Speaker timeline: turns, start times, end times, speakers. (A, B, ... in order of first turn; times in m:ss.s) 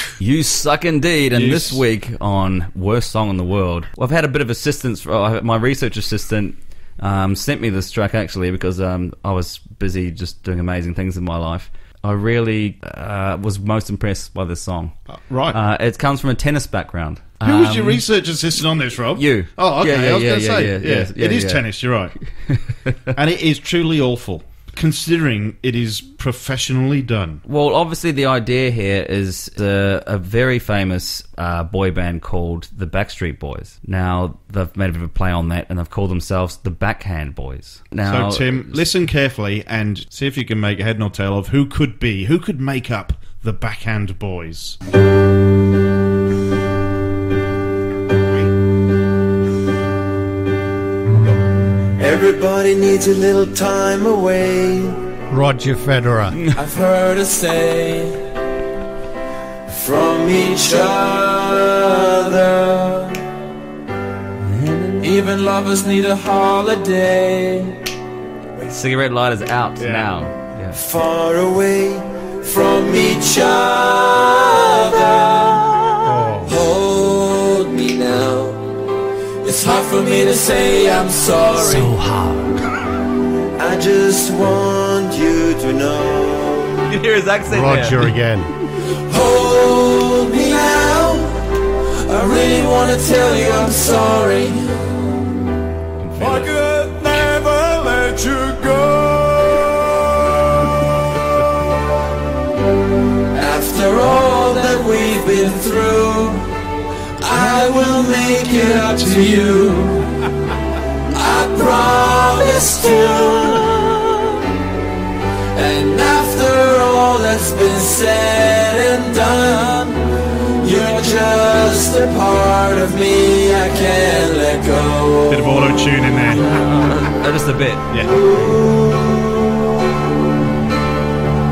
0:00.2-0:14.9 A
0:01.3-0:01.8 B
0:15.1-0:15.6 B
0:15.5-0:18.0 A
0:17.4-0:22.1 B
0:19.1-0:21.7 A
0:22.5-0:23.1 A
0:23.1-0:27.4 B
0:27.4-0:38.8 A
0:38.0-0:44.8 B
0:52.0-0:55.0 C
0:55.3-0:56.4 D
0:56.5-0:58.2 C
0:59.7-1:03.2 C
1:04.4-1:05.2 A
1:05.0-1:07.8 C
1:08.6-1:10.8 A
1:09.8-1:10.2 B
1:10.7-1:18.6 C
1:16.0-1:16.6 D
1:19.4-1:21.9 C
1:21.6-1:22.5 A
1:23.6-1:26.8 C
1:26.9-1:28.1 A
1:27.5-1:28.5 D
1:29.1-1:31.4 C
1:32.1-1:34.8 C
1:36.0-1:36.6 A
1:36.2-1:40.6 C
1:43.3-1:46.5 C
1:47.2-1:50.1 C
1:51.1-1:54.3 C
1:55.5-2:00.0 C
2:00.6-2:05.6 C
2:05.3-2:06.4 B
2:06.3-2:08.6 A
2:07.9-2:08.2 B
2:08.1-2:09.1 C